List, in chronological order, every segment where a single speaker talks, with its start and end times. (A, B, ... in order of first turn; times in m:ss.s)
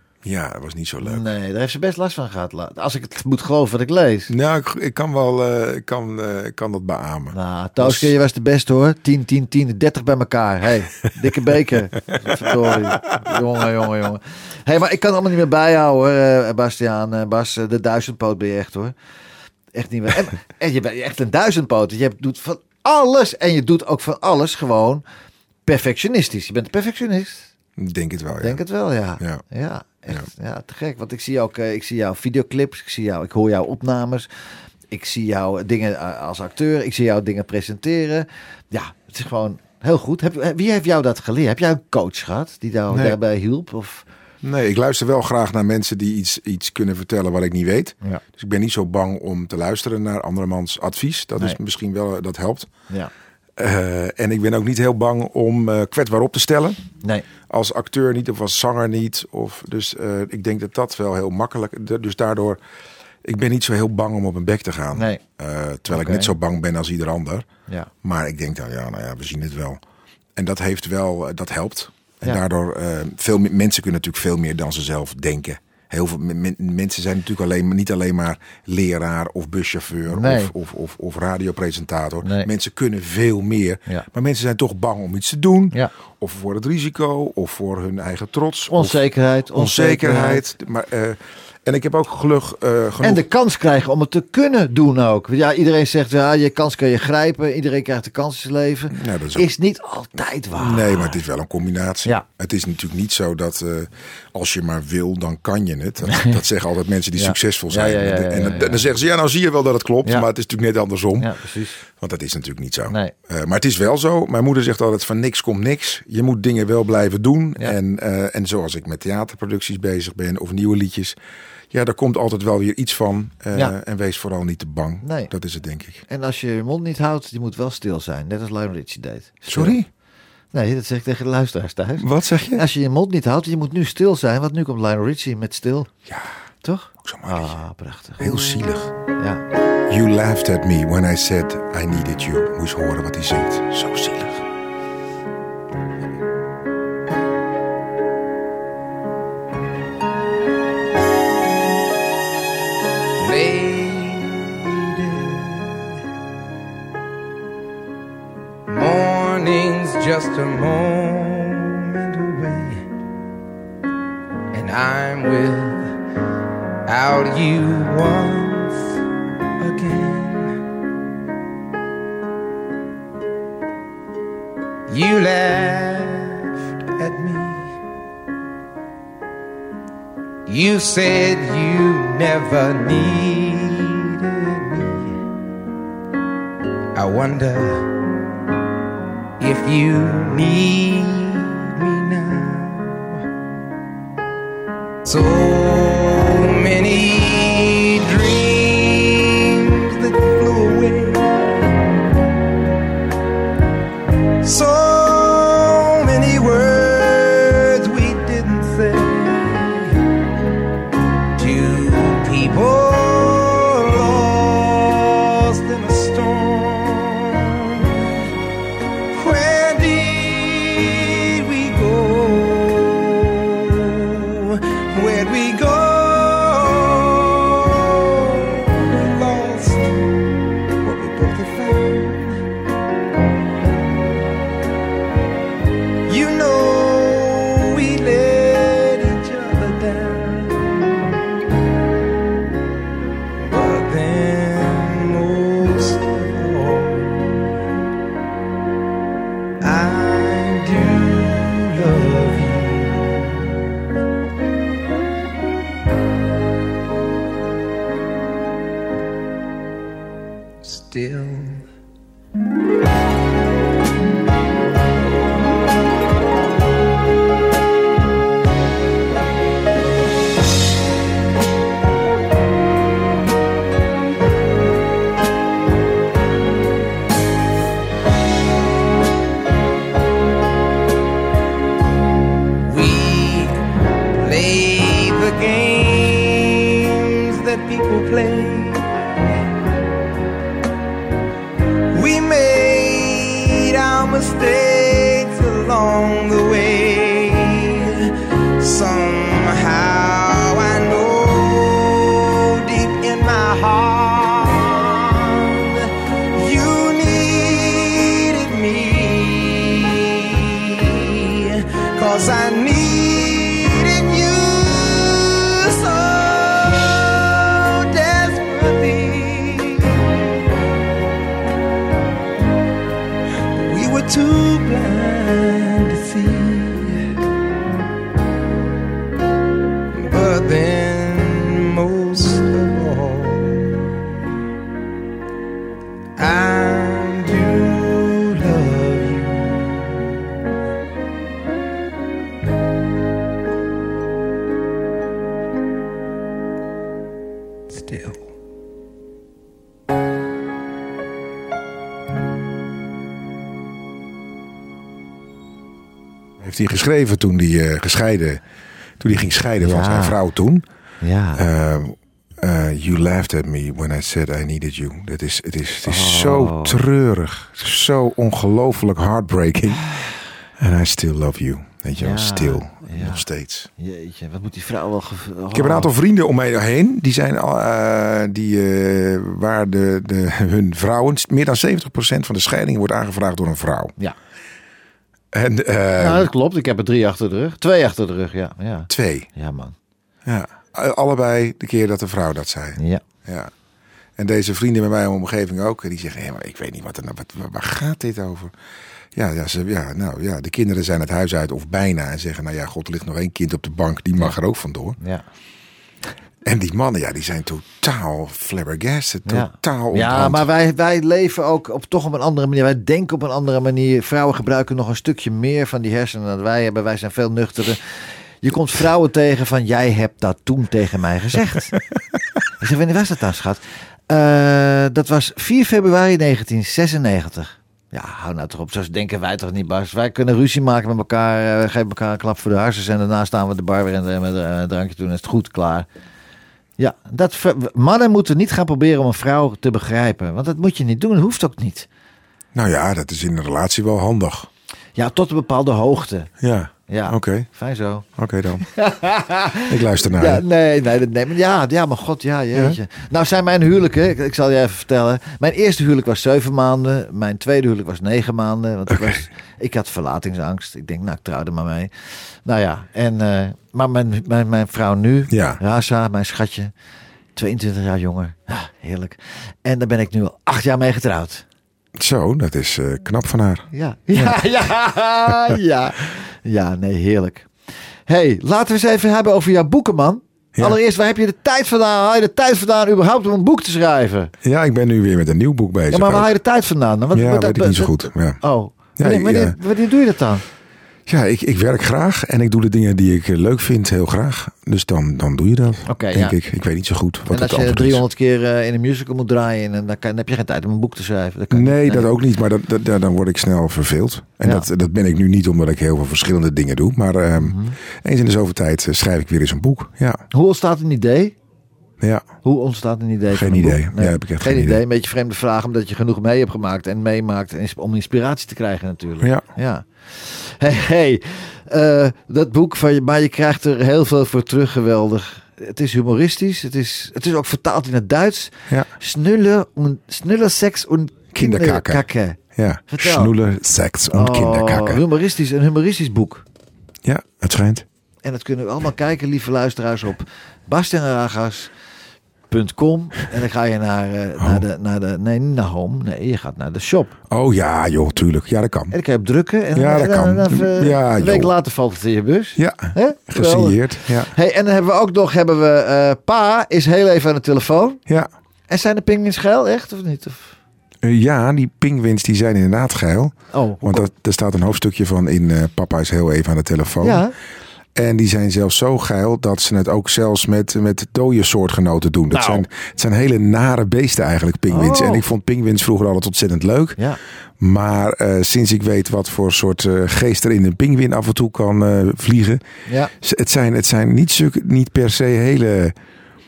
0:00.2-0:01.3 A
0:01.0-0:04.3 B
0:04.3-0:08.1 A
0:07.3-0:18.9 B
0:12.4-0:13.0 A
0:19.7-0:25.0 B
0:25.6-0:27.5 B
0:27.8-0:28.6 A
0:28.4-0:34.3 B
0:34.9-0:44.0 B
0:42.9-0:43.2 A
0:44.4-0:52.7 A
0:53.6-0:56.8 A
0:57.5-1:02.6 A
1:03.2-1:07.5 A
1:04.9-1:05.2 B
1:05.9-1:06.3 B
1:08.0-1:09.8 A
1:10.4-1:33.2 A
1:20.1-1:20.5 B
1:28.7-1:30.4 B
1:33.0-1:41.2 B
1:38.9-1:39.5 A
1:40.6-1:51.3 A
1:46.1-1:46.4 B
1:47.2-1:48.8 B
1:51.2-1:51.8 B
1:51.9-2:01.2 A
1:52.9-1:53.1 B
2:01.7-2:06.0 A
2:05.0-2:05.3 B
2:06.1-2:09.8 B
2:09.4-2:09.9 A
2:10.5-2:15.9 B
2:12.0-2:12.6 A
2:16.6-2:18.4 B
2:17.0-2:17.6 A
2:18.2-2:18.9 A
2:19.9-2:24.4 A
2:33.2-2:35.9 C
2:38.7-2:42.8 C
2:44.5-2:45.9 C
2:46.8-2:48.9 C
2:49.6-2:50.6 C
2:54.9-2:57.7 C
3:00.5-3:05.1 C
3:06.9-3:07.9 C
3:09.4-3:13.2 C
3:15.0-3:22.0 C
3:24.4-3:29.9 C
3:31.4-3:38.2 C
3:39.1-3:50.3 C
3:50.8-3:52.4 C
3:56.1-4:01.2 C
4:03.4-4:07.5 C
4:09.6-4:13.4 C
4:20.6-4:21.6 C
4:42.6-4:43.6 C
4:44.1-4:48.8 C
4:51.9-5:20.0 C
5:23.6-5:27.0 C
5:29.9-5:33.8 C
5:36.2-5:40.0 C
5:47.7-5:48.2 C
5:56.4-5:58.4 A
5:59.0-6:00.6 A
5:59.6-6:00.2 B
6:01.0-6:01.4 B
6:01.4-6:09.9 A
6:05.8-6:06.8 B
6:10.6-6:13.7 A
6:12.0-6:13.2 B
6:13.8-6:15.9 B
6:15.5-6:23.9 A
6:25.3-6:26.3 A
6:26.0-6:29.8 B
6:28.9-6:29.3 A
6:30.2-6:33.5 A
6:32.8-6:33.0 B
6:34.2-6:38.5 A
6:39.1-6:45.0 A
6:46.4-6:50.5 A
6:49.2-7:01.8 B
7:02.6-7:15.9 B
7:16.8-7:21.9 B
7:22.5-7:24.5 A
7:25.0-7:26.3 B
7:26.4-7:27.5 A
7:26.9-7:28.0 B
7:28.2-7:28.6 A
7:28.6-7:41.9 B
7:29.7-7:30.4 A
7:32.5-7:32.8 A
7:38.9-7:39.2 A
7:42.4-7:46.7 B
7:45.3-7:45.6 A
7:47.3-7:51.4 B
7:52.0-7:54.4 A
7:53.7-7:57.5 B
7:58.1-8:04.3 B
8:04.4-8:06.3 A
8:05.9-8:10.4 B
8:07.1-8:08.4 A
8:09.0-8:09.6 A
8:11.1-8:18.0 A
8:15.9-8:16.4 B
8:17.3-8:22.1 B
8:21.5-8:30.2 A
8:27.4-8:27.7 B
8:30.3-8:31.3 B
8:32.0-8:32.2 A
8:32.4-8:53.3 B
8:33.3-8:34.8 A
8:51.3-8:55.0 A
8:54.1-8:56.4 B
8:57.0-8:57.8 A
8:58.2-9:01.7 B
9:02.5-9:07.1 B
9:04.4-9:04.6 A
9:07.3-9:08.9 A
9:08.9-9:18.0 B
9:09.7-9:11.5 A
9:12.6-9:14.3 A
9:18.7-9:20.5 B
9:21.0-9:27.2 A
9:23.5-9:24.1 B
9:27.0-9:27.3 B
9:27.9-9:37.0 A
9:32.3-9:32.6 B
9:34.7-9:35.2 B
9:37.6-9:42.6 A
9:43.2-9:45.9 A